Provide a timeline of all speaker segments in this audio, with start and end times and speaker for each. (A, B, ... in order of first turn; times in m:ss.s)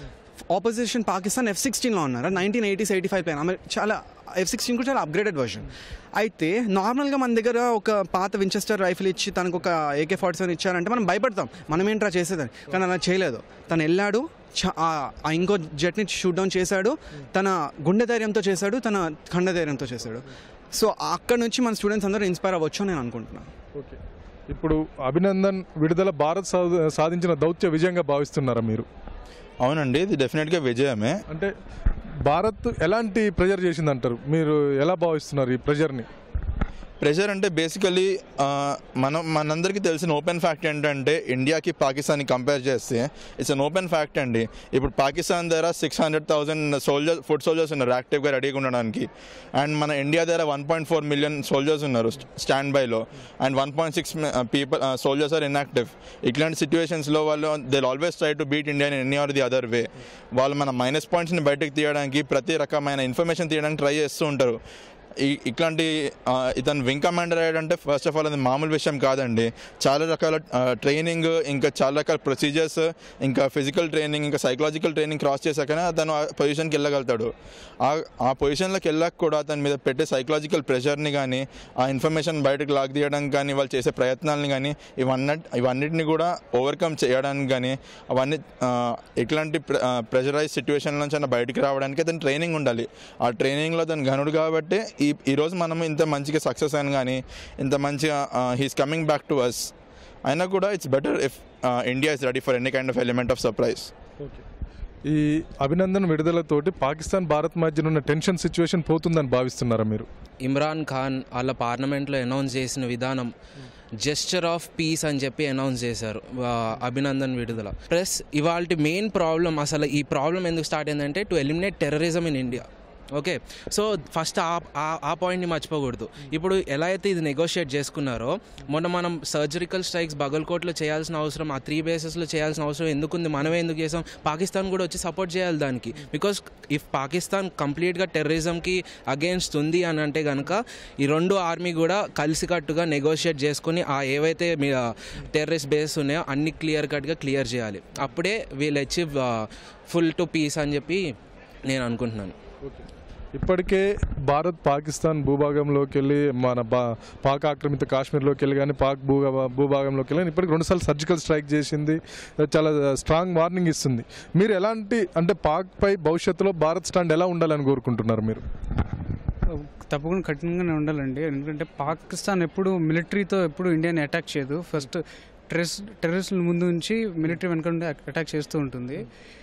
0:00.4-0:23.5 A
0:24.5-0:28.8 B
0:29.6-0:31.2 C
0:32.3-0:36.0 B
0:37.0-1:04.6 C
1:05.2-1:39.7 C
1:40.2-1:43.9 C
1:45.1-1:50.1 B
1:50.4-1:53.3 D
1:54.0-2:31.0 D
2:31.7-2:32.3 D
2:33.3-2:48.4 B
2:49.5-2:59.1 E